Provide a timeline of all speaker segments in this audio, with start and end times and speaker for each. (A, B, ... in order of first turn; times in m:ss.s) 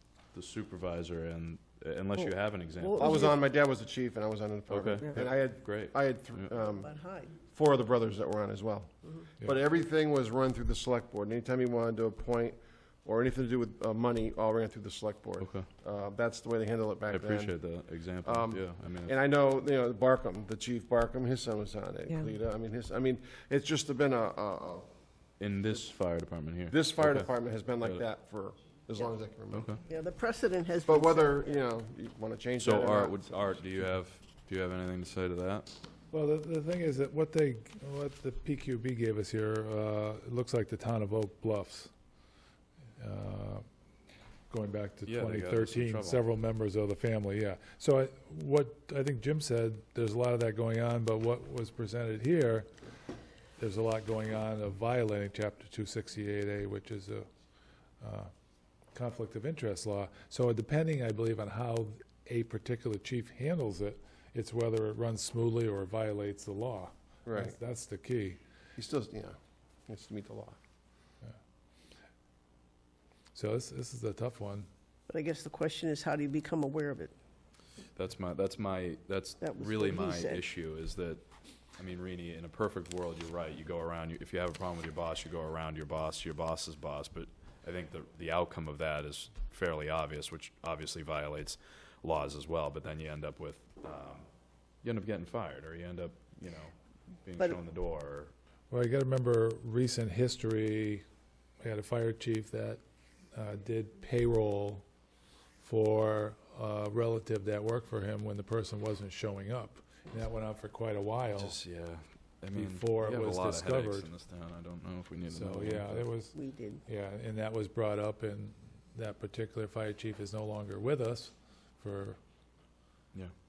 0:00.3-0:03.2 A
0:02.3-0:03.4 B
0:03.0-0:17.6 C
0:04.7-0:06.5 A
0:06.6-0:07.4 B
0:15.4-0:15.7 A
0:17.1-0:19.1 A
0:18.2-0:24.9 C
0:25.4-0:27.3 A
0:26.7-0:29.8 C
0:29.5-0:29.8 A
0:29.9-0:31.6 B
0:30.8-0:33.3 C
0:32.6-0:35.8 A
0:36.1-0:41.9 D
0:43.0-0:43.6 D
0:44.5-0:52.7 D
0:45.0-0:46.2 A
0:53.6-0:57.2 D
0:58.0-0:58.3 D
0:58.9-1:08.4 D
1:07.2-1:07.6 C
1:08.8-1:10.6 C
1:13.3-1:14.7 D
1:15.1-1:17.1 B
1:17.9-1:21.2 A
1:19.4-1:20.4 B
1:21.8-1:34.3 A
1:34.8-1:36.7 A
1:37.2-1:38.3 A
1:38.7-1:41.0 D
1:41.6-1:42.8 D
1:43.3-1:44.8 D
1:45.6-1:51.6 D
1:51.4-1:56.1 A
1:52.5-1:54.1 D
1:55.3-2:02.2 D
1:56.3-1:56.8 B